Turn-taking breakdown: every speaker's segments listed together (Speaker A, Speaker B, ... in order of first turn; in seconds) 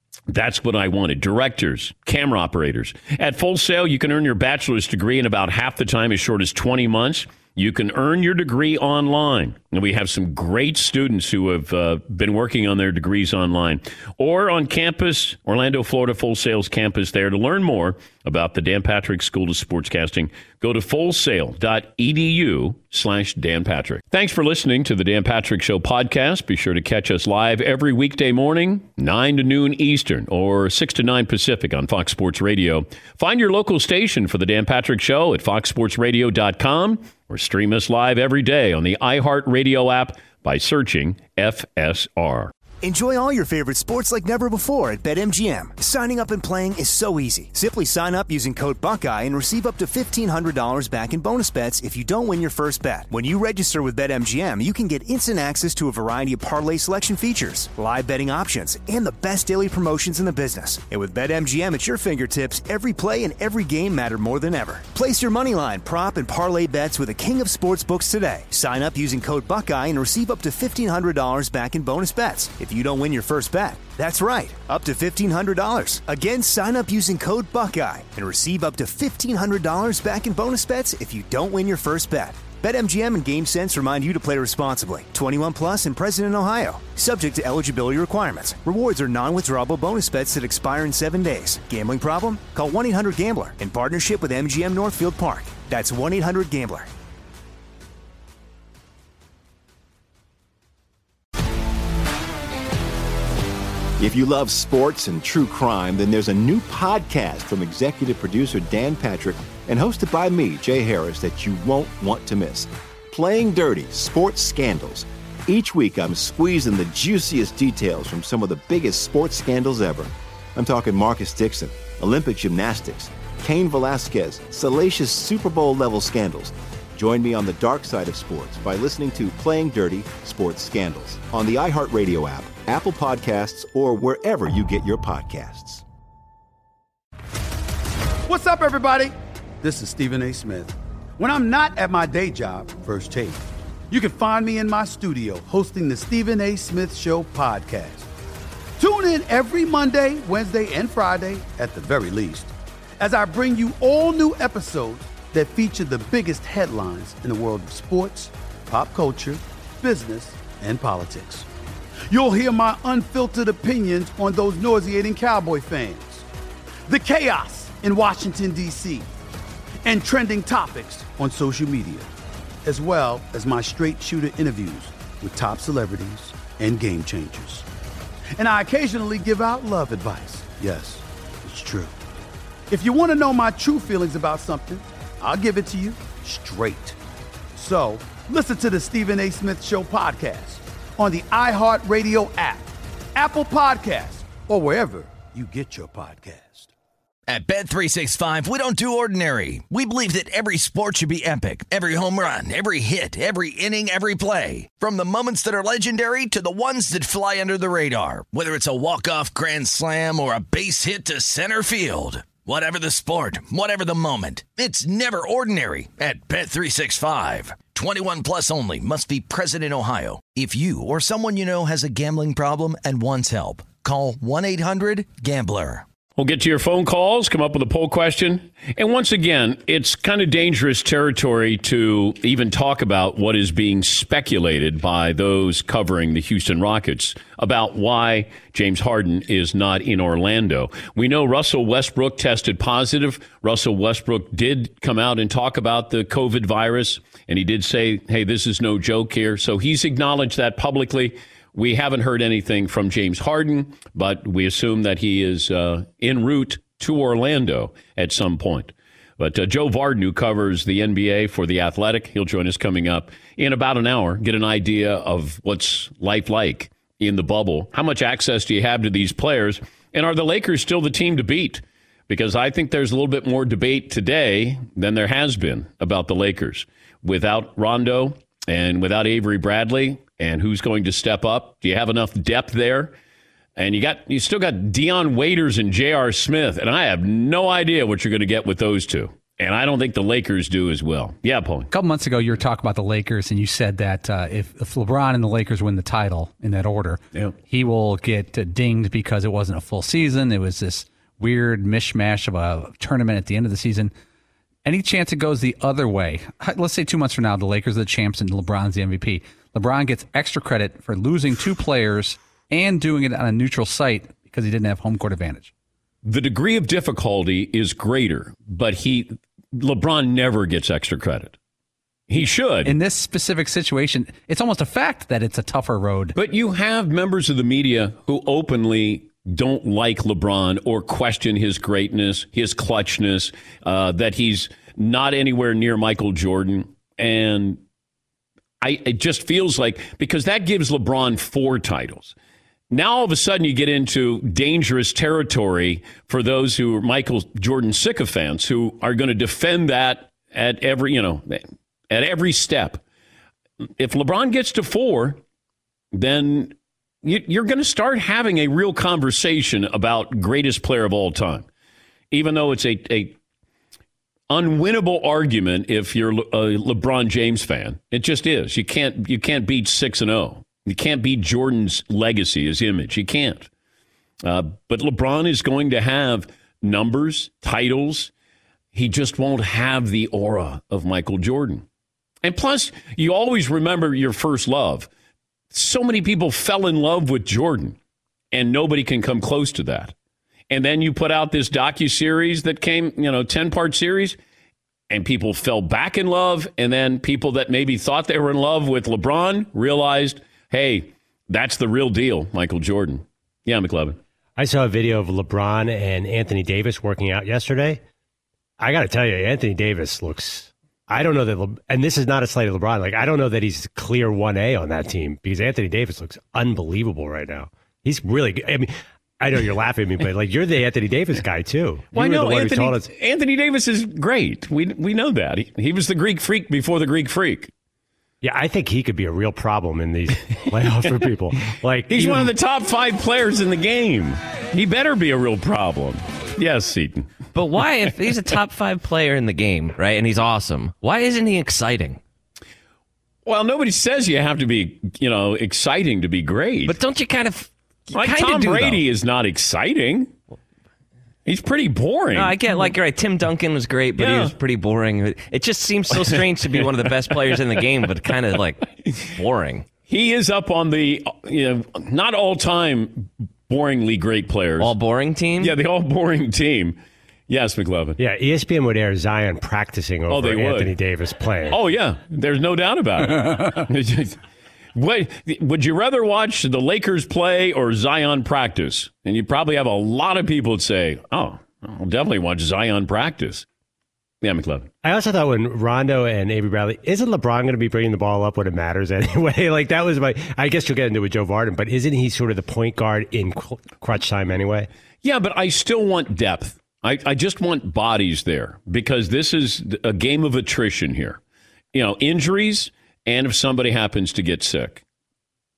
Speaker A: 0.3-42.5, 226.2-282.9, 283.6-291.7, 316.0-321.4, 322.1-322.7, 326.1-337.6, 338.6-342.1, 342.7-352.8, 353.8-355.2, 355.9-361.4, 362.1-363.2, 364.3-373.5, 374.2-378.1, 378.7-381.6, 382.2-384.9, 385.5-387.8, 388.3-389.9, 390.5-394.2, 394.9-404.0, 421.9-427.5, 431.9-437.1, 443.2-446.8, 447.9-450.1, 451.2-452.4, 454.0-454.3, 456.0-456.6, 459.9-464.7, 465.4-468.0, 470.1-470.7, 471.5-474.2, 474.7-483.4, 484.2-484.7, 495.0-501.2, 501.7-504.8
Speaker B: 42.8-96.9
Speaker C: 104.0-135.8
Speaker D: 138.3-148.1, 148.8-161.4, 162.1-166.2, 166.9-169.1, 169.8-172.1, 172.6-177.7, 178.4-181.9, 182.7-186.9, 187.5-196.7
Speaker E: 197.3-225.8
Speaker F: 291.7-303.9, 304.6-315.5, 322.6-326.1
Speaker G: 404.4-407.8, 408.6-422.9, 428.2-432.3, 468.0-471.6, 484.8-494.7
Speaker H: 437.3-442.0, 446.6-448.8, 452.1-459.7, 464.6-465.5